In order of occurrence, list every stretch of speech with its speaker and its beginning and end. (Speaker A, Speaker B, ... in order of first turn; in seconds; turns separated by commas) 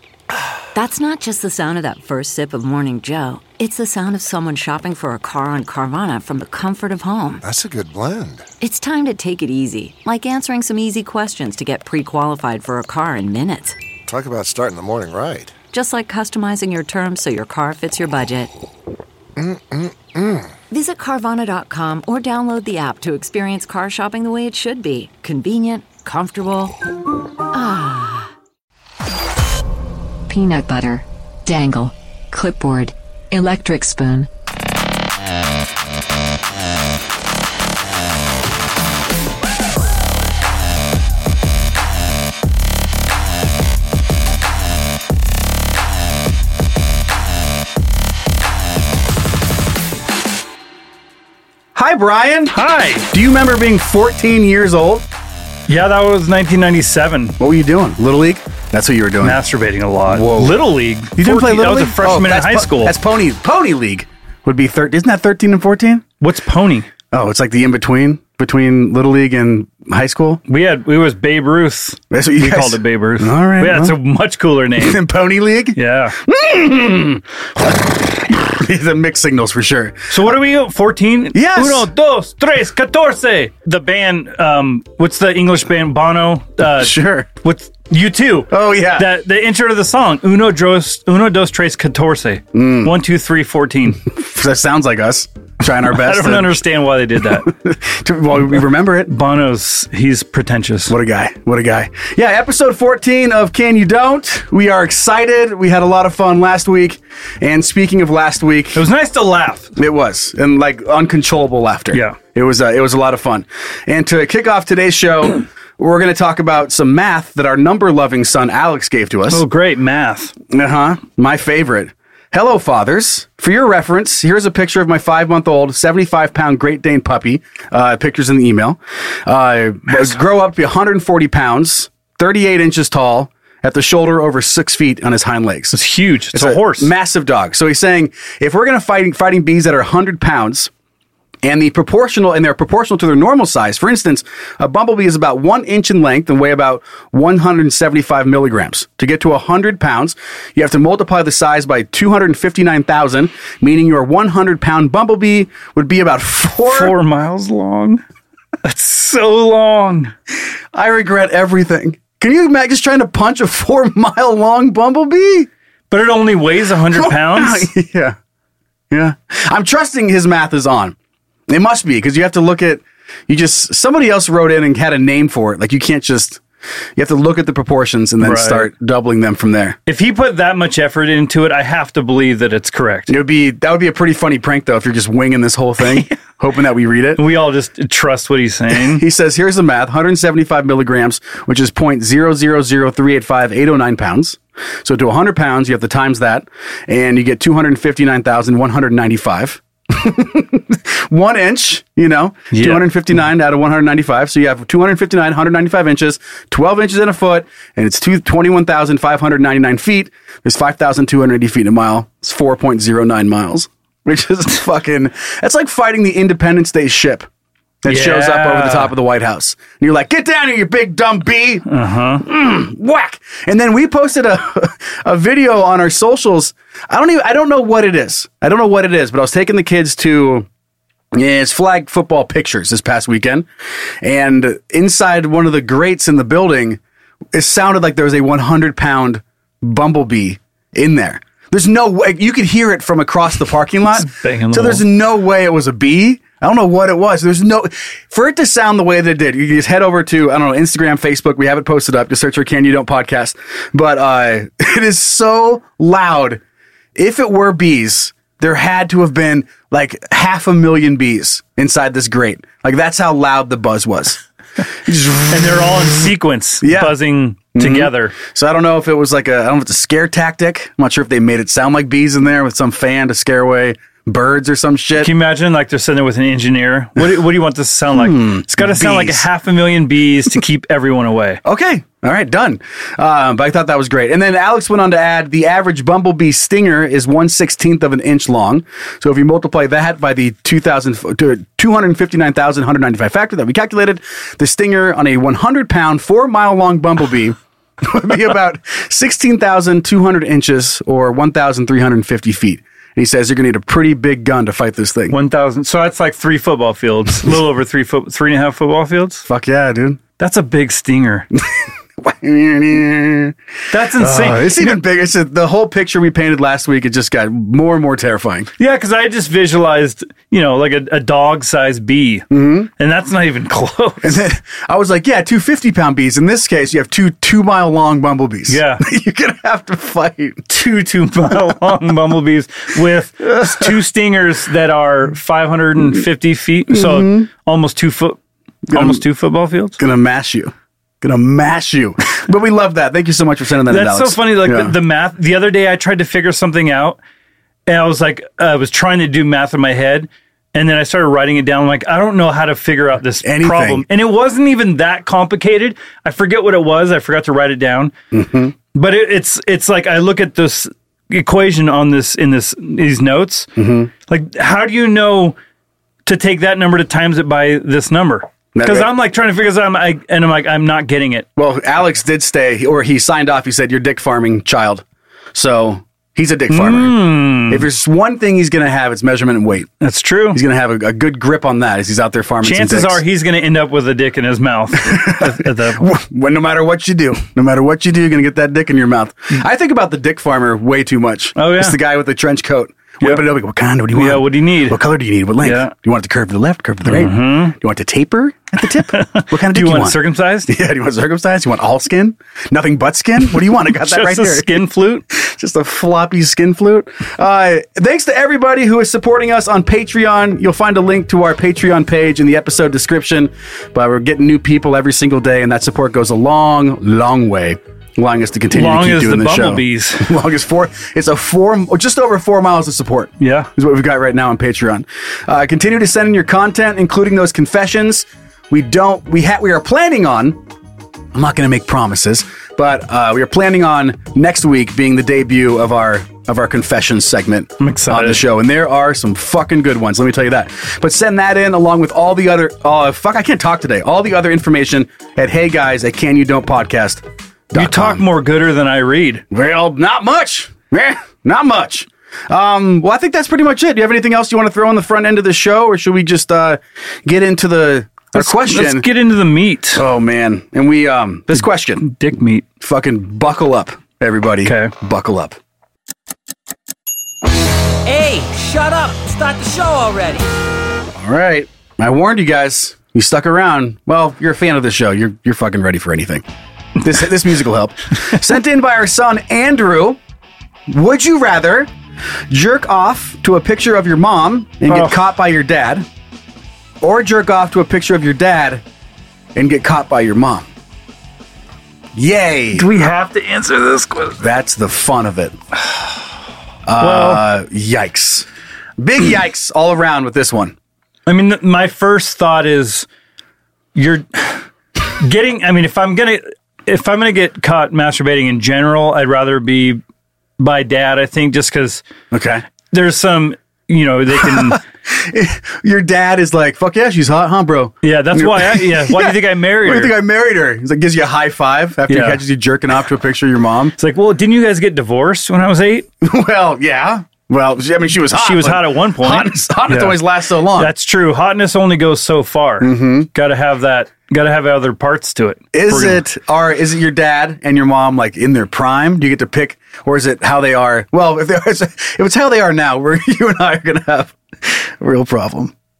Speaker A: 0.7-7.4, Speaker B: 7.4-8.4, Speaker A: 8.6-13.8, Speaker B: 14.1-15.5, Speaker A: 15.7-18.5, Speaker B: 19.4-20.5, Speaker A: 20.7-26.7, Speaker A: 27.5-28.3, Speaker C: 30.3-34.3, Speaker D: 51.7-52.6, Speaker E: 52.5-53.1, Speaker D: 53.1-55.0, Speaker E: 55.7-57.4, Speaker D: 57.4-59.4, Speaker E: 59.2-62.9, Speaker D: 60.1-60.6, Speaker D: 61.1-66.0, Speaker E: 66.2-66.9, Speaker D: 67.1-70.4, Speaker E: 70.5-75.0, Speaker D: 72.1-74.0, Speaker D: 74.8-80.1, Speaker E: 75.8-76.2, Speaker E: 80.1-94.0, Speaker D: 81.3-81.9, Speaker D: 86.8-87.3, Speaker D: 88.5-89.1, Speaker D: 92.5-92.9, Speaker D: 94.0-96.6, Speaker E: 95.8-97.5, Speaker D: 97.3-99.1, Speaker E: 99.1-100.9, Speaker D: 100.9-108.8, Speaker E: 108.7-109.7, Speaker D: 109.8-119.4, Speaker E: 111.9-112.2, Speaker E: 119.3-120.3, Speaker D: 120.5-135.8, Speaker E: 135.7-136.9, Speaker D: 136.3-140.7, Speaker D: 141.4-156.9, Speaker E: 156.7-158.0, Speaker E: 158.6-160.1, Speaker D: 160.7-165.5, Speaker E: 165.9-167.7, Speaker D: 166.9-168.2, Speaker D: 168.9-170.9, Speaker D: 171.5-176.4, Speaker D: 176.9-179.8, Speaker E: 178.2-178.7, Speaker E: 179.9-183.1, Speaker D: 183.1-187.2, Speaker E: 187.2-189.0, Speaker D: 188.7-217.3, Speaker E: 202.5-202.8, Speaker D: 217.8-221.7, Speaker E: 217.8-218.9, Speaker E: 221.7-222.2, Speaker D: 222.2-230.5, Speaker D: 231.1-233.5, Speaker D: 234.0-236.8, Speaker D: 237.3-256.4, Speaker E: 243.9-244.8, Speaker D: 256.9-264.2, Speaker D: 264.8-265.9, Speaker E: 265.3-268.1, Speaker D: 266.6-266.9, Speaker D: 267.5-275.1, Speaker E: 275.0-281.4, Speaker D: 277.9-279.2, Speaker D: 281.4-305.1, Speaker E: 305.1-309.2, Speaker D: 309.2-310.0, Speaker E: 310.2-311.3, Speaker D: 311.4-313.4, Speaker E: 313.7-314.8, Speaker D: 313.9-318.5, Speaker E: 318.6-324.2, Speaker D: 322.3-322.7, Speaker D: 324.0-330.4, Speaker E: 328.5-328.8, Speaker E: 330.5-338.2, Speaker D: 333.3-333.7, Speaker D: 336.7-337.3, Speaker D: 338.7-339.0, Speaker E: 338.7-339.8, Speaker D: 339.8-344.7, Speaker E: 343.7-347.0, Speaker E: 347.7-357.9, Speaker D: 353.2-353.9, Speaker D: 358.1-358.5, Speaker E: 358.7-363.5, Speaker D: 363.6-363.9, Speaker E: 364.1-365.4, Speaker E: 366.1-371.3, Speaker D: 368.5-368.9, Speaker D: 371.4-379.7, Speaker E: 376.5-377.6, Speaker E: 379.8-380.4, Speaker D: 380.3-383.0, Speaker E: 382.4-385.8, Speaker D: 384.8-430.4, Speaker E: 391.4-391.8, Speaker E: 393.9-394.8, Speaker E: 395.4-395.7, Speaker E: 396.8-397.5, Speaker E: 398.9-400.5, Speaker E: 403.7-405.0, Speaker E: 418.5-420.1, Speaker E: 423.2-423.5, Speaker D: 431.1-448.0, Speaker E: 437.6-438.2, Speaker E: 447.5-449.2, Speaker D: 449.3-458.9, Speaker E: 458.1-459.8, Speaker D: 459.7-461.9, Speaker E: 461.3-462.4, Speaker D: 462.6-465.4, Speaker E: 464.4-464.7, Speaker F: 467.8-470.3, Speaker D: 470.9-476.2, Speaker D: 476.8-480.0, Speaker D: 480.7-481.7, Speaker D: 482.3-485.9, Speaker E: 484.7-485.0, Speaker D: 486.8-488.6, Speaker D: 489.3-490.5, Speaker D: 491.9-492.7, Speaker E: 492.5-494.2, Speaker D: 494.2-495.4, Speaker D: 496.6-498.3, Speaker E: 496.8-497.2, Speaker D: 498.8-500.6, Speaker E: 501.1-502.9, Speaker E: 503.7-504.4, Speaker E: 505.0-509.8, Speaker E: 510.4-511.8, Speaker D: 512.1-512.4, Speaker E: 512.7-514.6, Speaker D: 514.2-523.8, Speaker E: 517.8-520.0, Speaker E: 521.9-522.2, Speaker E: 523.8-525.9, Speaker D: 526.0-530.7, Speaker E: 528.1-530.0, Speaker E: 530.5-536.0, Speaker D: 532.6-533.1, Speaker D: 535.5-545.5